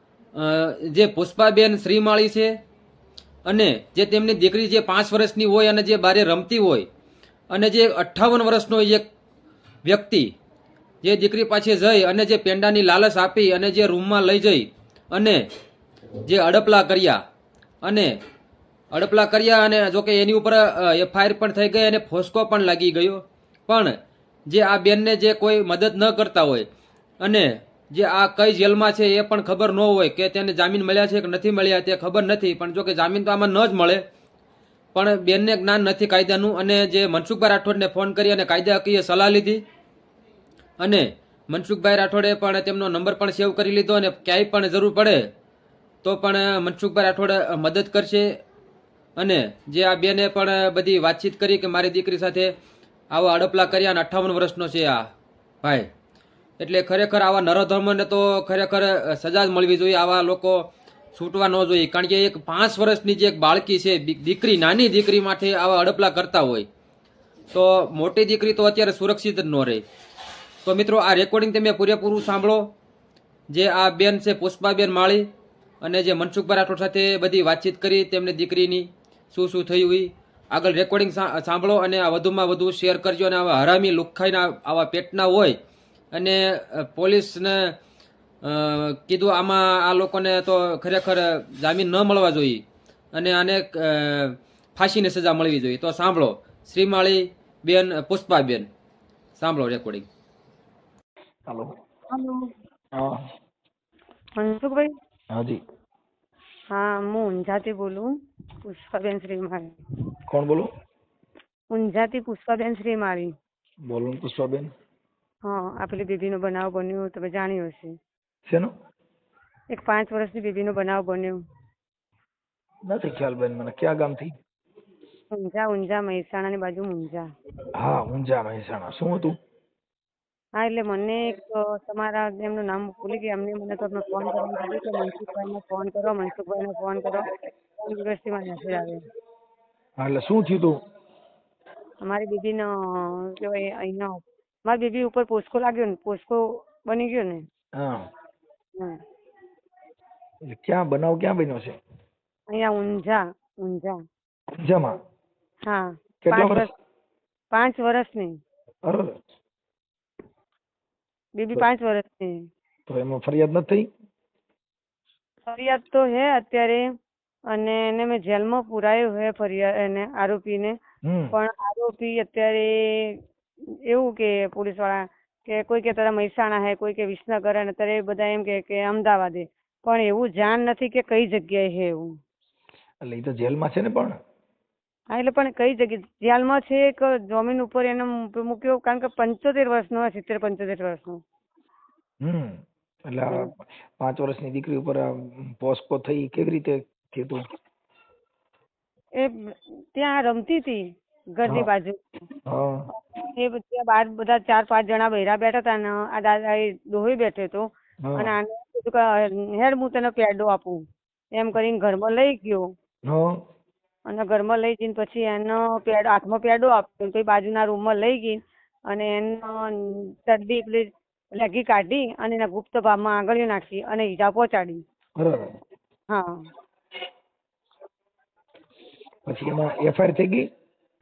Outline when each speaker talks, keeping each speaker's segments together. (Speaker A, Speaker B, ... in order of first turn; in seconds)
Speaker A: 0.3-2.6, 3.5-6.9, 7.5-9.1, 9.8-10.3, 11.0-15.5, 16.2-17.2, 17.8-18.2, 18.9-26.7, 27.2-34.0, 34.9-39.6, 40.8-45.3, 46.0-48.4, 49.2-52.5, 53.1-55.1, 55.6-55.9, 56.6-66.7, 67.5-69.8, 70.6-72.7, 73.5-75.3, 75.8-85.6, 86.1-87.8, 88.4-92.6, 93.1-98.7, 99.4-100.1
Speaker B: 102.1-102.5, 104.4-104.9, 106.7-108.1, 108.6-109.8, 111.7-113.3, 115.5-118.0, 119.7-121.4, 125.3-127.2, 130.6-139.0, 142.0-147.4, 152.5-154.0, 155.7-156.7, 157.5-158.4, 161.3-162.5, 165.4-166.8, 167.5-170.8, 171.3-182.1, 185.1-191.2, 199.2-200.8, 201.3-202.1, 203.2-212.7, 214.1-218.4, 218.9-224.8, 226.1-226.5
Speaker C: 103.0-103.2, 105.3-105.6, 110.3-110.7, 113.9-114.7, 122.9-124.3, 127.8-129.3, 140.0-140.8, 147.8-148.0, 150.5-151.8, 154.5-154.9, 156.2-156.7, 158.8-159.2, 162.9-163.9, 171.1-171.4, 183.0-184.2, 192.2-197.4, 202.5-202.9, 208.0-208.3, 213.1-213.4, 225.2-225.6, 229.3-230.4